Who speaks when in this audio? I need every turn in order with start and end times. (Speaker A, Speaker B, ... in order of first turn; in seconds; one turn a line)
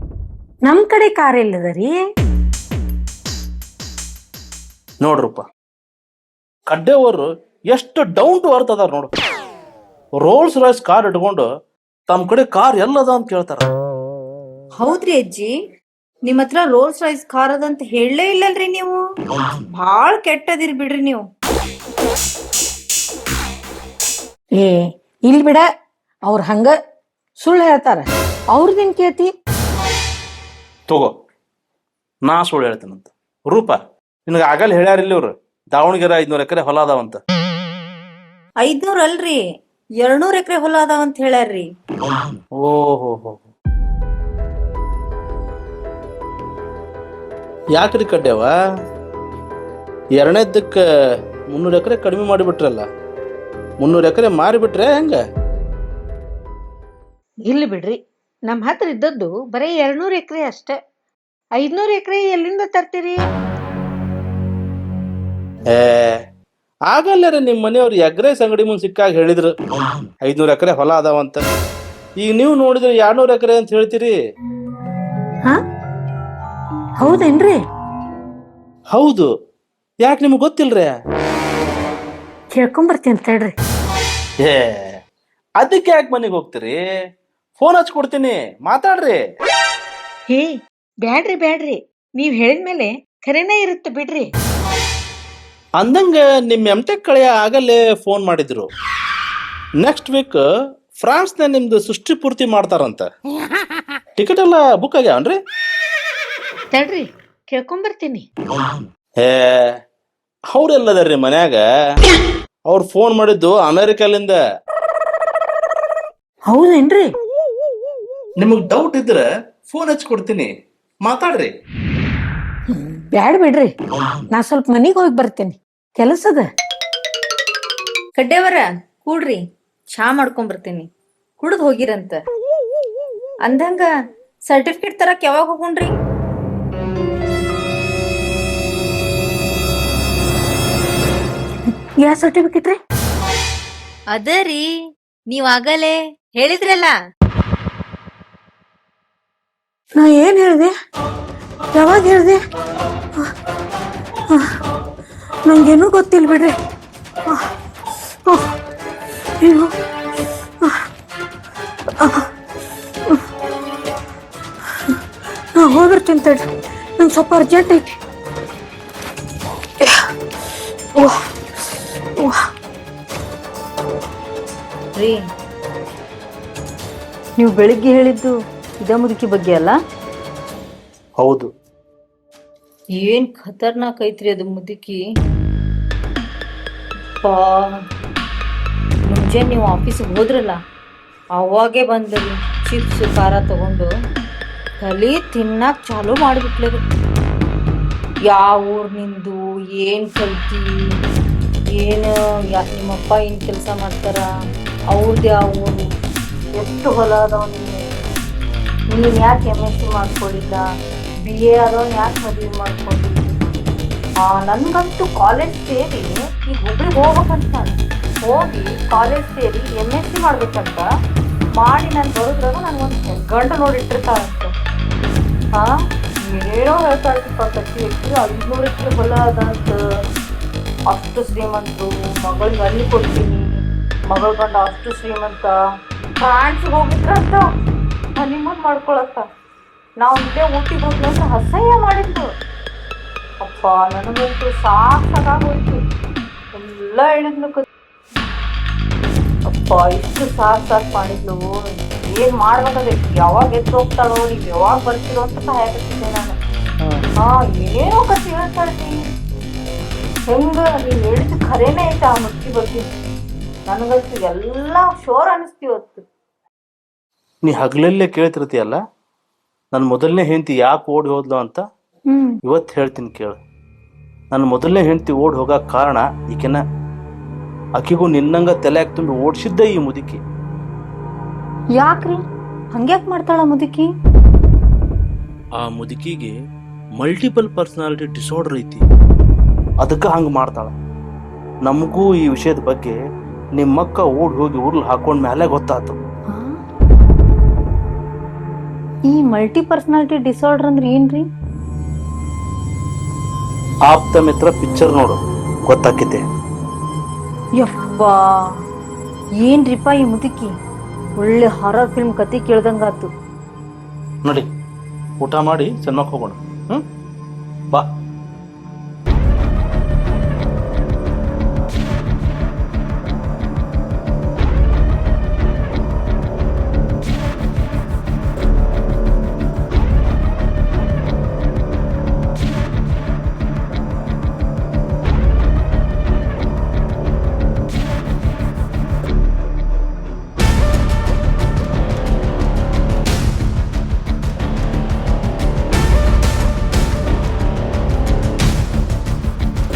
Speaker A: 0.7-1.9
Speaker B: 5.0-5.4
Speaker B: 6.7-9.1
Speaker B: 10.2-11.5
Speaker B: 12.1-13.7
Speaker C: 14.8-15.5
Speaker C: 16.2-19.0
Speaker C: 19.7-21.2
Speaker A: 24.6-25.6
Speaker A: 26.2-26.7
Speaker A: 27.4-29.3
Speaker B: 32.2-33.8
Speaker B: 34.3-37.2
Speaker C: 38.6-39.4
Speaker C: 40.0-41.7
Speaker B: 42.6-43.4
Speaker B: 47.7-48.5
Speaker B: 50.1-50.8
Speaker B: 51.5-52.9
Speaker B: 53.8-55.2
Speaker A: 57.4-60.8
Speaker A: 61.5-63.2
Speaker B: 65.7-66.2
Speaker B: 66.9-69.5
Speaker B: 70.2-71.4
Speaker B: 72.2-74.1
Speaker A: 77.0-77.6
Speaker B: 78.9-79.3
Speaker B: 80.0-80.9
Speaker A: 82.5-83.5
Speaker B: 84.4-84.9
Speaker B: 85.6-86.8
Speaker B: 87.6-89.2
Speaker A: 90.3-94.3
Speaker B: 95.8-98.7
Speaker B: 99.8-100.4
Speaker B: 101.0-103.1
Speaker B: 104.2-105.3
Speaker A: 106.7-108.2
Speaker B: 109.2-109.7
Speaker B: 110.5-111.6
Speaker B: 112.7-114.4
Speaker A: 116.5-117.1
Speaker B: 118.4-120.5
Speaker B: 121.0-121.5
Speaker A: 122.7-123.7
Speaker A: 124.3-126.5
Speaker C: 128.2-129.4
Speaker C: 129.9-130.9
Speaker C: 131.4-132.2
Speaker C: 133.4-133.9
Speaker C: 134.5-135.9
Speaker A: 142.0-142.8
Speaker C: 144.1-144.7
Speaker C: 145.3-146.9
Speaker A: 150.0-150.7
Speaker A: 151.7-152.4
Speaker A: 155.4-156.5
Speaker A: 159.4-159.7
Speaker A: 162.0-162.3
Speaker A: 165.6-166.4
Speaker A: 167.0-167.9
Speaker A: 169.8-170.1
Speaker A: 170.9-171.2
Speaker A: 172.2-172.4
Speaker C: 177.4-179.8
Speaker B: 181.2-181.5
Speaker C: 183.0-185.0
Speaker C: 187.2-187.6
Speaker C: 189.1-190.6
Speaker C: 191.3-193.9
Speaker C: 194.8-196.8
Speaker C: 198.3-200.7
Speaker C: 201.8-204.2
Speaker C: 204.9-205.8
Speaker C: 206.6-207.8
Speaker C: 208.9-210.6
Speaker C: 211.2-213.6
Speaker C: 214.2-220.8
Speaker C: 221.5-224.5
Speaker C: 226.3-229.8
Speaker C: 230.9-235.5
Speaker C: 236.2-237.4
Speaker C: 238.2-239.2
Speaker C: 240.0-242.3
Speaker C: 243.4-245.8
Speaker C: 246.5-247.6
Speaker C: 249.5-251.5
Speaker C: 252.1-256.4
Speaker C: 257.2-259.0
Speaker C: 260.3-262.9
Speaker C: 263.7-266.0
Speaker B: 267.4-268.8
Speaker B: 269.7-271.6
Speaker C: 272.1-272.4
Speaker B: 272.4-273.4
Speaker B: 274.3-276.6
Speaker B: 277.8-280.2
Speaker C: 281.7-282.2
Speaker C: 282.7-283.9
Speaker B: 285.6-286.3
Speaker B: 287.0-288.9
Speaker B: 289.8-290.7
Speaker B: 291.6-293.0
Speaker B: 293.6-296.0
Speaker C: 296.3-296.6
Speaker C: 299.1-301.2
Speaker B: 303.9-306.2
Speaker C: 307.6-308.2
Speaker C: 309.4-310.5
Speaker C: 311.2-313.1
Speaker B: 315.2-316.8